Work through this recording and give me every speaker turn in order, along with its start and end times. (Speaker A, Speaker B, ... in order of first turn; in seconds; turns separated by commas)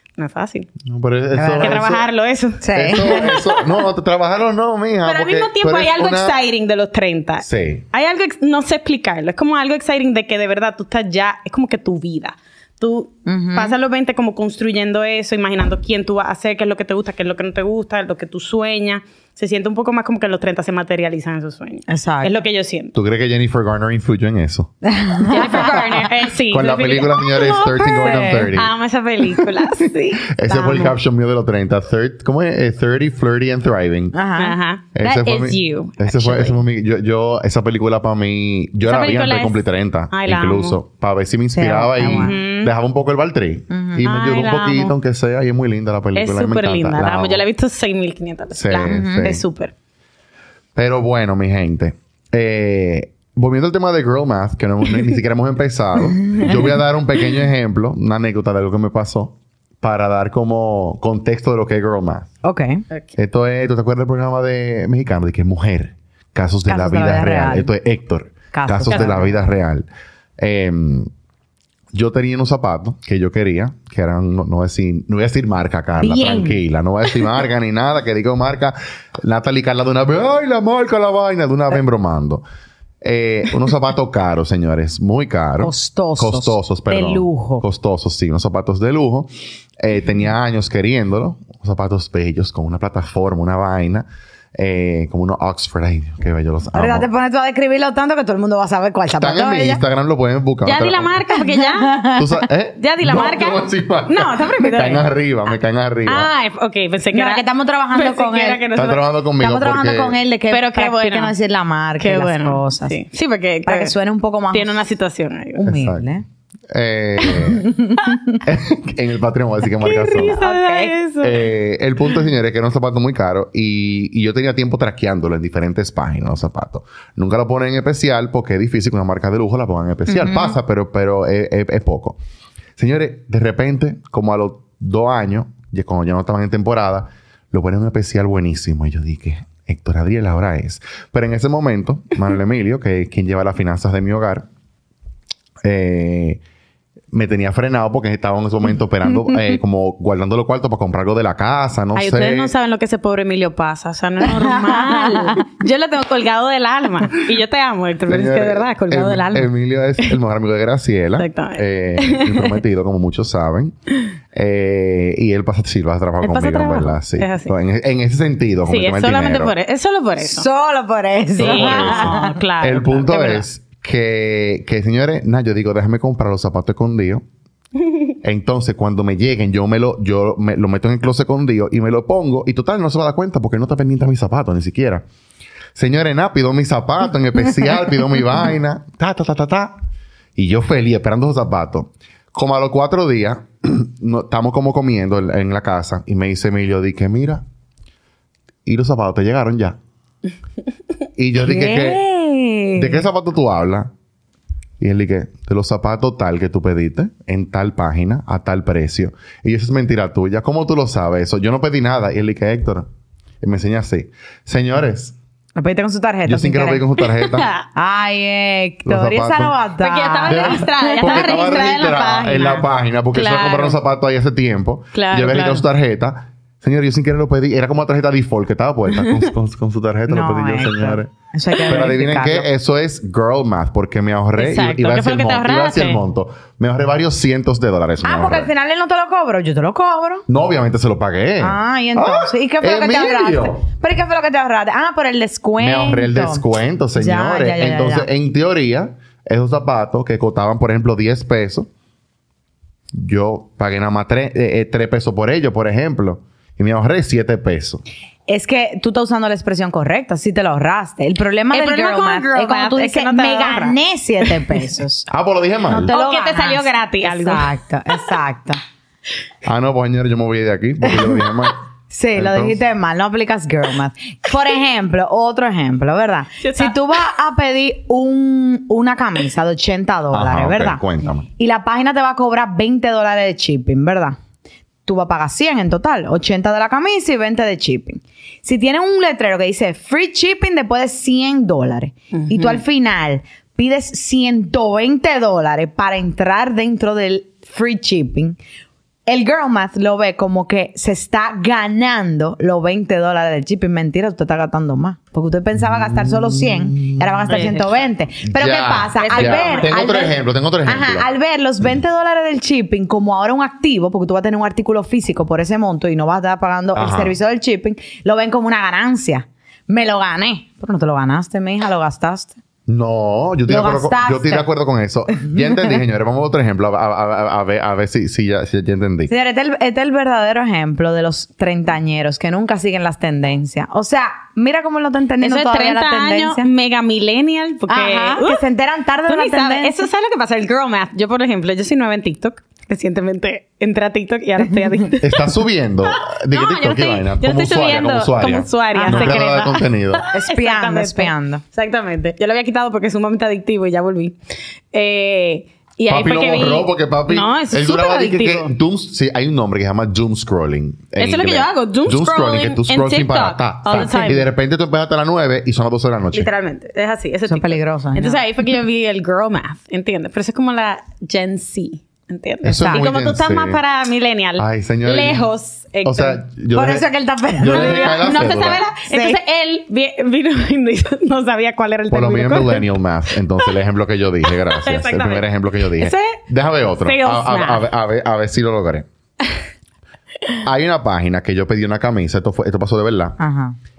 Speaker A: 0.2-0.7, Speaker B: 0.8-2.1, Speaker C: 1.3-1.8, Speaker A: 1.6-3.8, Speaker C: 2.6-3.3, Speaker B: 2.7-6.3, Speaker A: 5.0-22.9, Speaker B: 7.4-7.8, Speaker C: 13.3-13.8, Speaker C: 21.9-22.3, Speaker B: 22.9-24.7, Speaker C: 24.9-25.8, Speaker A: 25.3-30.9, Speaker B: 26.5-28.7, Speaker C: 27.8-28.5, Speaker B: 30.3-34.1, Speaker C: 30.5-30.9, Speaker C: 34.1-34.6, Speaker A: 34.4-36.6, Speaker B: 35.0-47.5, Speaker A: 38.8-40.8, Speaker C: 41.5-42.3, Speaker A: 42.0-42.7, Speaker C: 43.7-44.0, Speaker A: 44.0-44.9, Speaker A: 46.1-49.7, Speaker B: 48.6-49.4, Speaker C: 48.9-49.3, Speaker B: 50.8-62.3, Speaker C: 62.4-62.8, Speaker B: 63.2-69.9, Speaker C: 66.7-67.7, Speaker C: 68.5-69.3, Speaker A: 68.9-69.1, Speaker B: 70.4-71.1, Speaker B: 71.9-82.4, Speaker C: 76.0-76.6, Speaker B: 83.0-97.1, Speaker C: 85.6-87.6, Speaker C: 96.7-99.8, Speaker B: 99.2-101.2, Speaker A: 100.6-102.0, Speaker C: 101.4-102.3, Speaker B: 102.2-106.3, Speaker A: 102.8-105.1, Speaker A: 106.1-109.0, Speaker C: 107.1-108.7, Speaker B: 108.7-110.2, Speaker C: 109.4-113.0, Speaker A: 110.5-111.3, Speaker A: 112.0-114.0, Speaker C: 113.7-114.8, Speaker A: 114.5-115.7, Speaker B: 115.6-116.1, Speaker C: 115.6-116.2, Speaker B: 116.7-117.7, Speaker C: 117.5-118.4, Speaker B: 118.5-120.4, Speaker A: 119.8-121.4, Speaker C: 120.2-121.0, Speaker B: 121.2-132.2, Speaker C: 130.1-130.5, Speaker B: 132.8-144.5, Speaker B: 145.6-146.4, Speaker B: 147.1-152.5, Speaker A: 151.9-159.5, Speaker C: 154.3-155.5, Speaker B: 158.1-163.8, Speaker A: 161.2-162.6, Speaker B: 164.3-169.5, Speaker A: 166.2-167.5, Speaker A: 168.7-170.5, Speaker C: 170.2-172.4, Speaker A: 171.4-173.5, Speaker B: 171.4-177.2, Speaker B: 178.2-185.1, Speaker B: 185.8-189.8, Speaker B: 190.4-197.4, Speaker B: 198.7-199.8, Speaker B: 201.2-202.0, Speaker C: 201.4-203.0, Speaker B: 202.8-203.9, Speaker B: 204.8-212.9, Speaker B: 213.4-215.2, Speaker C: 215.6-216.8, Speaker B: 216.3-217.5, Speaker A: 217.1-217.7, Speaker C: 217.7-221.5, Speaker B: 218.8-219.6, Speaker A: 219.8-223.8, Speaker B: 220.3-231.1, Speaker A: 224.9-225.7, Speaker A: 229.0-229.3, Speaker C: 230.1-232.5, Speaker B: 231.7-238.5, Speaker A: 234.4-236.0, Speaker C: 238.0-240.2, Speaker B: 240.3-243.6, Speaker C: 241.4-246.4, Speaker B: 245.6-251.7, Speaker C: 247.0-248.1, Speaker B: 252.9-257.8, Speaker C: 258.3-265.1, Speaker A: 261.5-264.6, Speaker B: 265.1-265.9, Speaker C: 265.7-268.6, Speaker A: 265.9-267.5, Speaker B: 269.4-271.6, Speaker C: 271.9-280.8, Speaker B: 272.1-272.6, Speaker A: 276.4-276.8, Speaker B: 280.1-281.3, Speaker C: 281.4-284.2, Speaker C: 284.9-298.4, Speaker A: 292.1-292.6, Speaker C: 299.1-322.4, Speaker B: 305.6-307.4, Speaker A: 307.3-307.8, Speaker B: 308.3-311.1, Speaker A: 309.0-309.8, Speaker B: 316.8-317.1, Speaker B: 322.7-329.1, Speaker C: 323.5-324.5, Speaker C: 329.1-336.5, Speaker A: 335.2-338.4, Speaker C: 337.7-339.9, Speaker A: 339.1-345.3, Speaker B: 345.0-350.0, Speaker A: 345.9-354.2, Speaker C: 348.7-349.2, Speaker C: 350.1-351.4, Speaker A: 354.7-358.5, Speaker B: 355.9-366.3, Speaker A: 361.0-364.3, Speaker A: 366.1-376.2, Speaker C: 367.3-368.2, Speaker B: 372.4-373.6, Speaker C: 372.5-372.8, Speaker B: 374.4-375.2, Speaker B: 375.8-376.9, Speaker C: 376.5-378.1, Speaker B: 377.4-378.6, Speaker A: 377.4-382.8, Speaker C: 378.9-379.2, Speaker B: 381.9-388.9, Speaker A: 384.3-385.3, Speaker A: 385.8-386.2, Speaker A: 386.8-387.7, Speaker B: 390.4-393.2, Speaker C: 393.2-393.6